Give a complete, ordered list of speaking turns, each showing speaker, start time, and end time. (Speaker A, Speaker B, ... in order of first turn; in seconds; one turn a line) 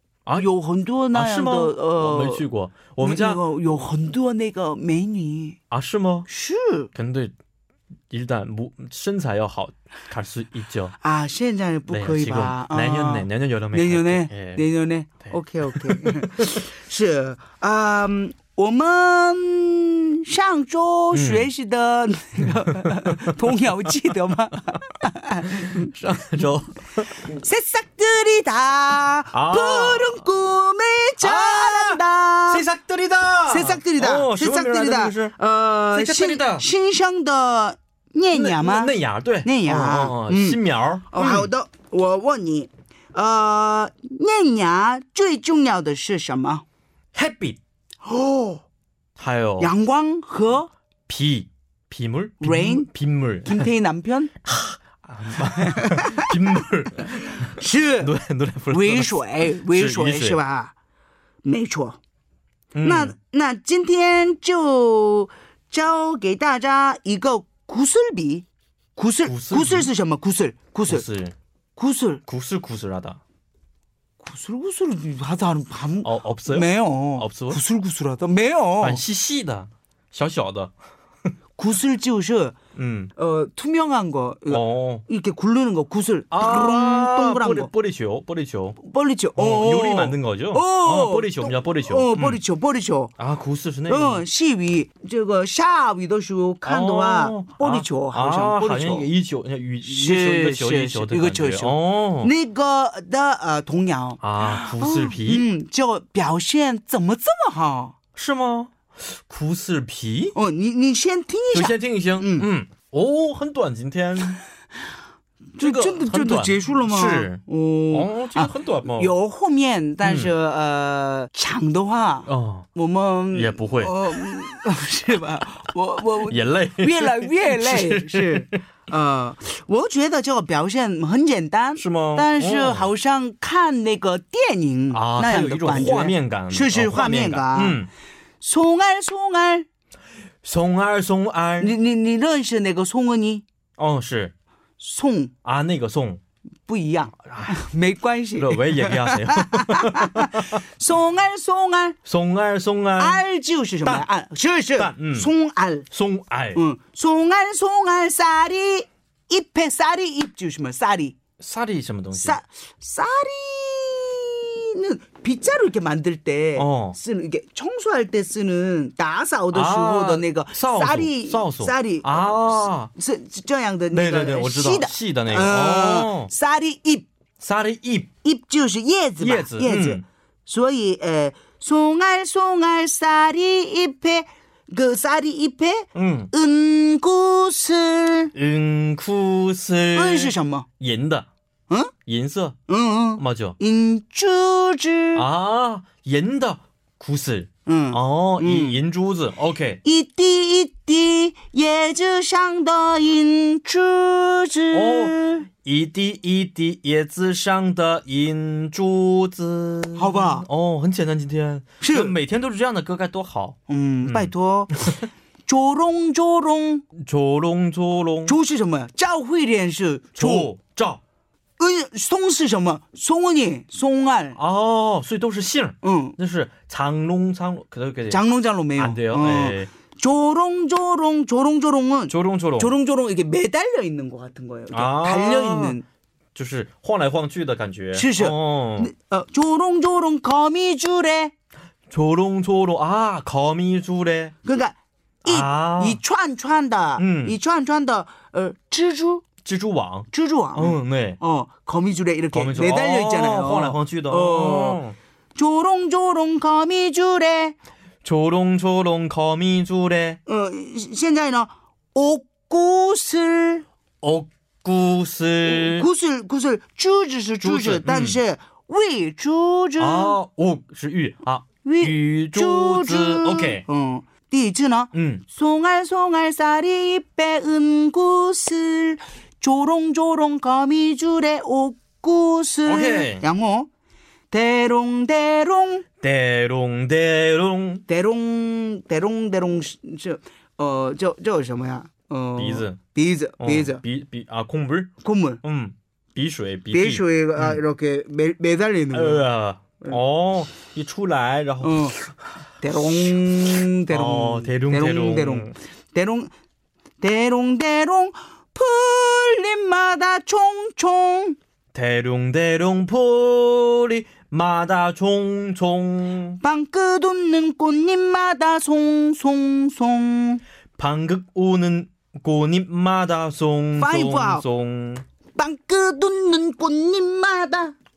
Speaker A: 0.4-2.4
Speaker B: 1.1-3.4
Speaker A: 3.0-5.6
Speaker B: 5.7-6.3
Speaker A: 6.3-6.9
Speaker B: 6.9-7.3
Speaker B: 8.1-10.9
Speaker A: 11.0-25.9
Speaker B: 11.9-14.6
Speaker B: 15.3-16.6
Speaker B: 21.1-21.5
Speaker B: 22.5-23.3
Speaker B: 25.5-27.2
Speaker A: 27.3-32.6
Speaker B: 29.3-30.2
Speaker B: 31.2-35.3
Speaker A: 33.5-46.6
Speaker B: 35.9-36.7
Speaker B: 38.3-41.5
Speaker B: 47.1-47.6
Speaker A: 48.0-48.6
Speaker B: 49.2-49.7
Speaker A: 49.6-50.7
Speaker B: 51.1-53.7
Speaker A: 52.4-52.9
Speaker A: 53.4-54.3
Speaker B: 54.4-60.4
Speaker A: 55.6-56.3
Speaker A: 57.4-58.1
Speaker A: 58.7-60.7
Speaker A: 61.4-62.0
Speaker B: 62.7-63.1
Speaker A: 62.8-68.4
Speaker A: 69.0-71.0
Speaker B: 69.2-69.9
Speaker B: 70.9-71.3
Speaker A: 71.8-72.2
Speaker B: 72.2-73.2
Speaker A: 74.2-79.0
Speaker B: 76.0-77.6
Speaker B: 78.8-80.7
Speaker A: 81.6-82.5
Speaker B: 82.8-83.1
Speaker A: 83.2-87.7
Speaker B: 84.5-85.0
Speaker B: 86.3-88.8
Speaker A: 88.8-93.1
Speaker B: 89.3-92.4
Speaker B: 93.2-94.2
Speaker A: 93.9-99.1
Speaker B: 96.7-102.3
Speaker A: 99.8-107.9
Speaker B: 104.2-105.5
Speaker B: 108.2-110.3
Speaker A: 110.3-112.5
Speaker B: 111.5-114.4
Speaker A: 115.6-137.8
Speaker B: 115.6-119.1
Speaker B: 120.0-120.3
Speaker B: 122.3-122.7
Speaker B: 123.3-124.2
Speaker B: 126.3-128.6
Speaker B: 131.8-132.9
Speaker B: 134.9-137.9
Speaker A: 138.4-139.7
Speaker B: 140.4-141.7
Speaker A: 141.6-143.4
Speaker B: 143.8-144.3
Speaker A: 144.8-145.3
Speaker B: 145.4-146.2
Speaker A: 146.7-152.0
Speaker B: 147.2-147.6
Speaker B: 148.4-150.6
Speaker B: 152.0-153.2
Speaker A: 153.0-155.9
Speaker B: 154.8-155.3
Speaker B: 155.9-156.6
Speaker A: 156.5-161.2
Speaker B: 161.4-162.4
Speaker A: 162.1-177.1
Speaker B: 166.6-167.0
Speaker B: 169.5-172.9
Speaker B: 173.9-176.3
Speaker B: 177.4-178.1
Speaker A: 178.2-188.3
Speaker B: 179.2-180.0
Speaker B: 185.9-186.3
Speaker B: 188.3-191.3
Speaker A: 189.9-190.7
Speaker B: 192.1-192.6
Speaker A: 192.7-195.3
Speaker B: 193.2-193.6
Speaker B: 195.1-199.8
Speaker A: 197.7-198.8
Speaker A: 199.8-205.4
Speaker B: 204.7-215.0
Speaker A: 210.0-210.5
Speaker A: 211.8-212.1
Speaker A: 213.7-214.9
Speaker A: 215.4-216.8
Speaker B: 216.9-218.4
Speaker A: 218.2-220.5
Speaker B: 220.2-221.0
Speaker A: 221.6-224.4
Speaker B: 224.3-228.2
Speaker A: 225.8-226.1
Speaker A: 228.1-235.8
Speaker B: 228.8-229.7
Speaker B: 232.1-232.7
Speaker B: 234.7-235.8
Speaker B: 236.3-238.9
Speaker A: 237.9-241.3
Speaker B: 241.9-244.3
Speaker A: 244.4-249.2
Speaker B: 245.2-246.0
Speaker B: 247.0-247.4
Speaker B: 249.4-251.2
Speaker A: 250.1-254.8
Speaker B: 252.3-254.9
Speaker A: 255.3-257.6
Speaker B: 258.0-260.2
Speaker A: 260.3-263.6
Speaker B: 264.0-265.9
Speaker A: 265.4-270.1
Speaker B: 267.4-268.2
Speaker B: 269.8-273.6
Speaker A: 271.6-283.7
Speaker B: 274.9-275.2
Speaker B: 282.6-283.2
Speaker A: 284.3-285.8
Speaker B: 286.0-287.8
Speaker A: 287.9-293.8
Speaker B: 292.4-292.8
Speaker B: 293.4-297.6
Speaker A: 295.0-295.4
Speaker A: 296.7-299.2
Speaker B: 298.9-301.9
Speaker A: 301.6-301.9
Speaker A: 302.6-306.3
Speaker B: 303.9-305.5
Speaker A: 307.0-311.4
Speaker B: 311.7-316.4
Speaker A: 316.4-320.4
Speaker B: 320.8-325.0
Speaker A: 323.8-324.4
Speaker A: 325.4-327.7